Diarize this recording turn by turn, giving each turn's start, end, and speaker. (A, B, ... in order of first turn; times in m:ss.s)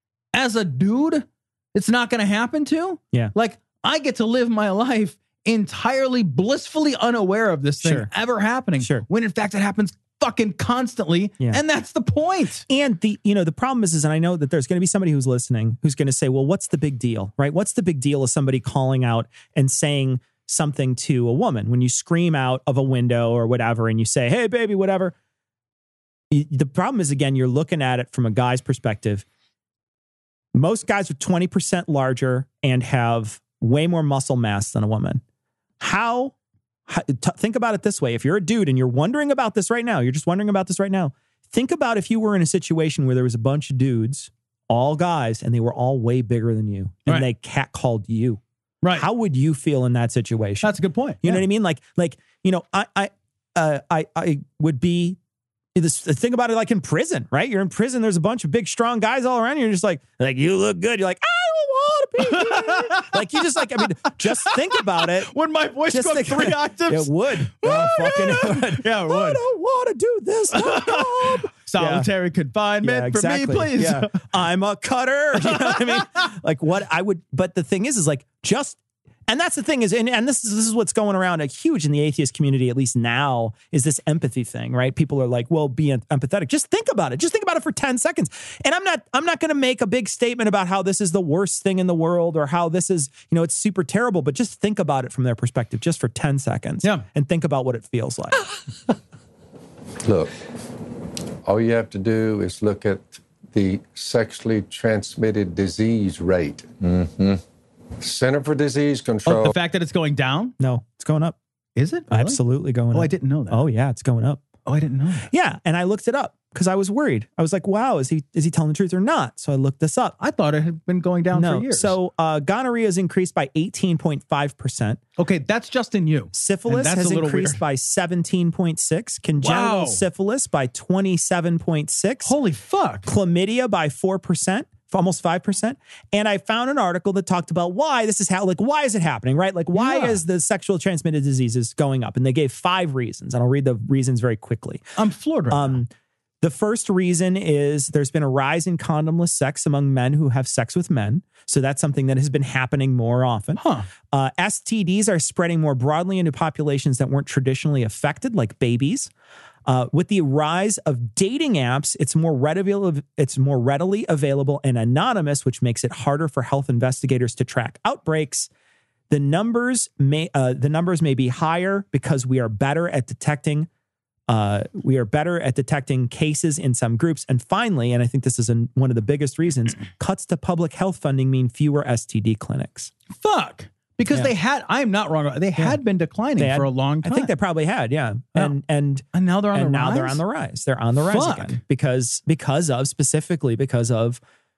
0:00.3-0:12.7 A
0:07.8-0:08.1 B
0:08.8-0:09.0 B
0:12.7-0:25.1 B
0:26.3-0:29.2 B
0:30.5-0:35.2 B
0:35.8-0:36.3 B
0:36.9-0:48.4 B
0:48.8-0:49.1 A
0:48.9-0:55.2 B
0:50.6-0:51.4 A
0:55.8-1:05.3 B
1:02.2-1:09.4 A
1:05.9-1:12.1 B
1:10.5-1:14.2 A
1:12.8-1:38.4 B
1:15.4-1:16.0 A
1:40.0-1:40.3 C
1:41.4-1:46.7 C
1:48.0-1:49.6 C
1:49.3-1:50.6 A
1:50.6-1:51.4 B
1:51.8-1:52.4 A
1:52.1-1:54.4 B
1:52.9-1:53.6 A
1:54.7-1:55.3 A
1:55.3-2:00.2 B
2:00.2-2:02.0 A
2:01.3-2:05.0 B
2:05.2-2:07.6 A
2:06.3-2:12.3 B
2:09.4-2:10.0 A
2:12.2-2:13.1 A
2:13.1-2:24.8 B
2:19.8-2:20.2 A
2:25.0-2:25.8 A
2:25.5-2:25.9 B
2:26.4-2:39.1 B
2:33.6-2:33.9 A
2:39.7-2:48.5 B
2:49.1-2:53.7 B
2:54.3-3:02.9 B
3:03.2-3:07.3 A
3:06.4-3:14.2 B
3:09.1-3:10.2 A
3:11.1-3:11.6 A